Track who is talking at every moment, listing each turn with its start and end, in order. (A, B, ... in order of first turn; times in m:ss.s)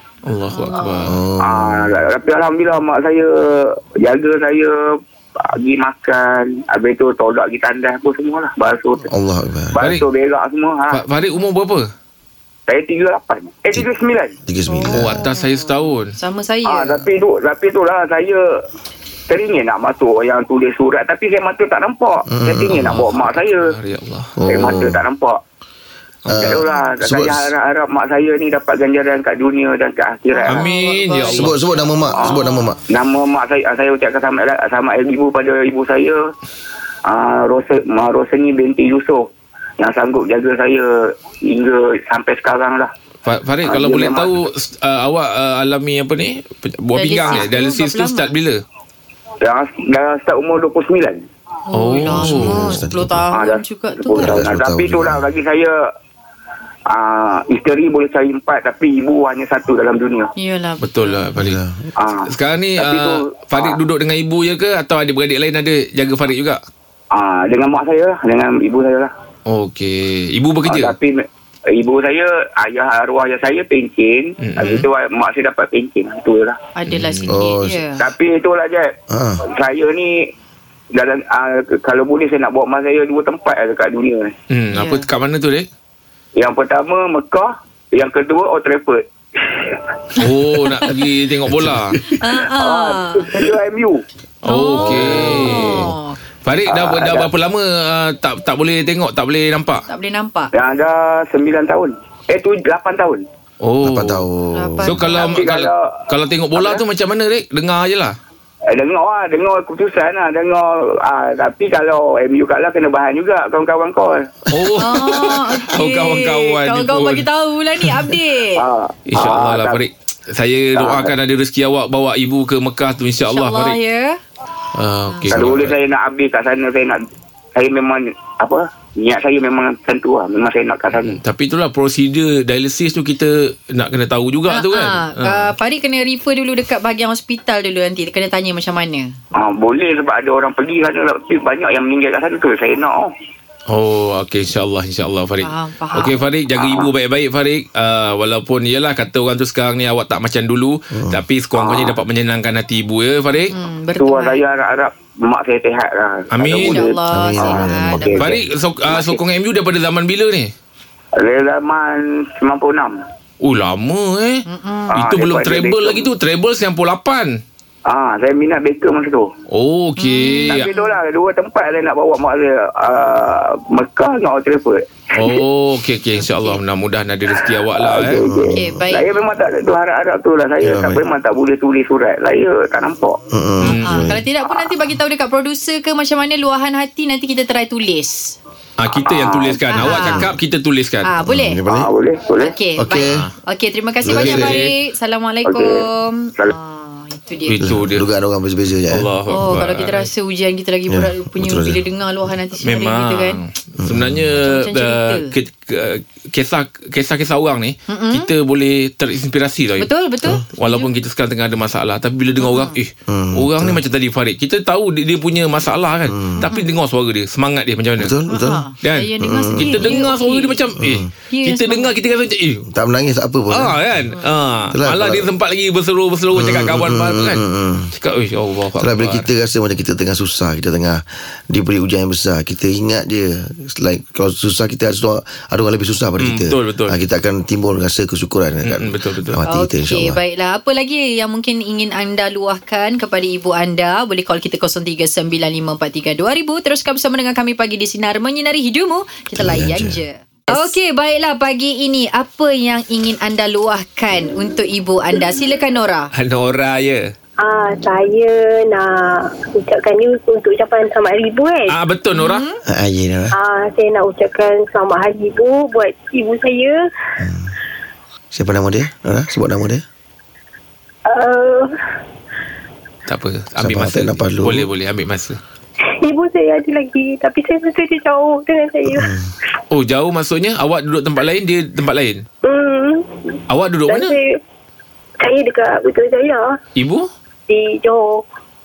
0:00.2-0:01.2 A
0:00.5-0:01.1 B
0:01.0-0:02.0 C
0:01.4-0:09.1 D
0:09.1-0:09.8 C
0:09.7-0:11.0 D
0:09.8-0:10.0 A
0:10.9-0:11.9 A
0:12.7-0:14.4 D
0:14.4-0:15.2 C
0:14.7-0:17.0 B
0:14.9-0:16.2 A
0:16.6-0:18.6 D
0:19.3-0:23.7 D
0:22.3-0:23.0 C
0:22.8-0:24.3 A
0:24.4-0:25.0 C
0:24.4-0:25.4 D
0:26.3-0:26.6 A
0:26.3-0:27.5 C
0:26.4-0:30.6 D
0:30.3-0:32.8 B
0:30.5-0:31.5 A
0:31.3-0:32.8 C
0:32.9-0:36.3 D
0:37.1-0:42.9 D
0:43.2-0:48.6 A
0:43.6-0:44.3 D
0:46.9-0:48.3 B
0:49.4-0:51.2 D
0:51.7-0:54.4 B
0:51.7-0:52.8 A
0:52.1-0:53.2 C
0:53.3-0:55.8 D
0:54.2-0:55.2 C
0:56.9-1:00.3 D
1:00.4-1:01.2 B
1:00.8-1:01.6 A
1:01.4-1:01.9 C
1:02.0-1:03.8 D
1:02.3-1:06.6 A
1:07.1-1:09.1 D
1:09.5-1:10.9 A
1:10.6-1:16.6 D
1:14.4-1:14.9 A
1:16.8-1:18.0 B
1:16.9-1:17.3 A
1:17.3-1:17.8 C
1:18.0-1:20.3 D
1:19.1-1:19.4 C
1:20.9-1:24.3 D
1:24.5-1:25.7 A
1:24.7-1:25.1 B
1:26.4-1:29.8 D
1:30.2-1:32.0 A
1:31.6-1:31.9 C
1:32.1-1:33.3 B
1:32.4-1:34.0 D
1:34.4-1:35.9 A
1:34.5-1:36.2 B
1:34.8-1:35.7 D
1:36.4-1:39.8 A
1:36.7-1:37.3 D
1:39.9-1:40.5 B
1:40.5-1:43.2 D
1:43.6-1:44.2 A
1:43.8-1:45.0 C
1:44.5-1:45.4 B
1:44.8-1:48.2 A
1:45.1-1:46.8 D
1:48.7-1:54.3 D
1:54.5-1:57.2 A
1:54.8-1:58.6 B
1:57.8-1:58.1 A
1:58.6-1:59.8 D
1:59.1-2:03.8 A
2:00.8-2:01.1 D
2:03.3-2:04.2 B
2:04.8-2:05.8 A
2:05.1-2:05.3 B
2:05.3-2:07.0 D
2:07.5-2:11.2 D
2:10.9-2:15.5 A
2:14.5-2:19.1 B
2:19.3-2:23.1 D
2:23.7-2:33.5 A
2:25.4-2:26.1 B
2:26.6-2:26.9 D
2:30.9-2:31.2 C
2:31.5-2:32.0 D
2:33.5-2:34.4 B
2:34.0-2:38.3 D
2:36.3-2:36.8 A
2:36.6-2:38.2 B
2:37.1-2:38.4 C
2:38.2-2:40.5 A
2:38.9-2:39.2 D
2:41.2-2:43.0 D
2:43.4-2:47.4 A
2:44.5-2:45.0 B
2:44.9-2:46.1 D
2:47.9-2:49.3 D
2:49.5-2:50.7 A
2:50.0-2:50.9 B
2:50.5-2:55.4 D
2:55.2-2:58.2 A
2:56.2-2:56.6 B
2:57.3-3:03.2 D
2:58.2-2:58.8 C
2:58.5-2:59.1 B
3:00.6-3:01.0 C
3:03.3-3:04.2 C
3:03.6-3:04.1 A
3:03.8-3:08.4 B
3:08.8-3:11.1 A
3:08.9-3:09.6 D
3:09.7-3:10.2 B
3:09.8-3:10.3 C
3:11.1-3:11.6 B
3:11.2-3:11.9 C
3:11.7-3:12.5 D
3:12.4-3:17.6 B
3:12.8-3:13.2 C
3:13.0-3:13.3 A
3:14.0-3:14.6 C
3:14.1-3:14.7 A
3:15.4-3:15.8 D
3:17.5-3:18.0 A
3:17.6-3:19.1 C
3:18.9-3:20.1 A
3:19.3-3:23.4 B
3:20.9-3:21.8 C
3:22.6-3:29.9 A
3:23.8-3:24.4 C
3:24.4-3:25.3 B
3:27.9-3:28.3 B
3:29.8-3:30.9 B
3:30.5-3:38.1 A
3:32.4-3:32.8 B
3:33.1-3:33.8 C
3:36.1-3:36.4 C
3:36.4-3:36.7 B
3:38.0-3:38.6 C
3:38.3-3:40.6 B
3:38.8-3:42.6 A
3:39.2-3:40.0 C
3:40.8-3:41.1 C
3:41.3-3:41.9 B
3:42.6-3:44.1 C
3:43.5-3:47.4 A
3:44.7-3:45.3 C
3:46.3-3:47.9 C
3:48.0-3:49.3 A
3:48.8-4:00.2 C
3:56.2-3:57.0 A
3:58.6-3:59.4 A
3:59.5-4:16.1 B
4:09.4-4:10.0 C
4:16.1-4:17.1 A
4:17.4-4:21.7 E
4:21.7-4:22.4 A
4:22.1-4:22.6 B
4:22.6-4:23.4 C
4:23.3-4:26.8 E
4:27.2-4:27.5 C
4:28.3-4:29.8 C
4:31.1-4:31.7 E
4:33.1-4:35.4 A
4:33.6-4:34.7 C
4:35.9-4:39.1 E
4:38.9-4:39.3 C
4:39.7-4:42.2 A
4:42.4-4:44.4 E
4:43.5-4:44.2 A
4:45.2-4:46.6 E
4:46.8-4:47.1 A
4:47.5-4:48.2 E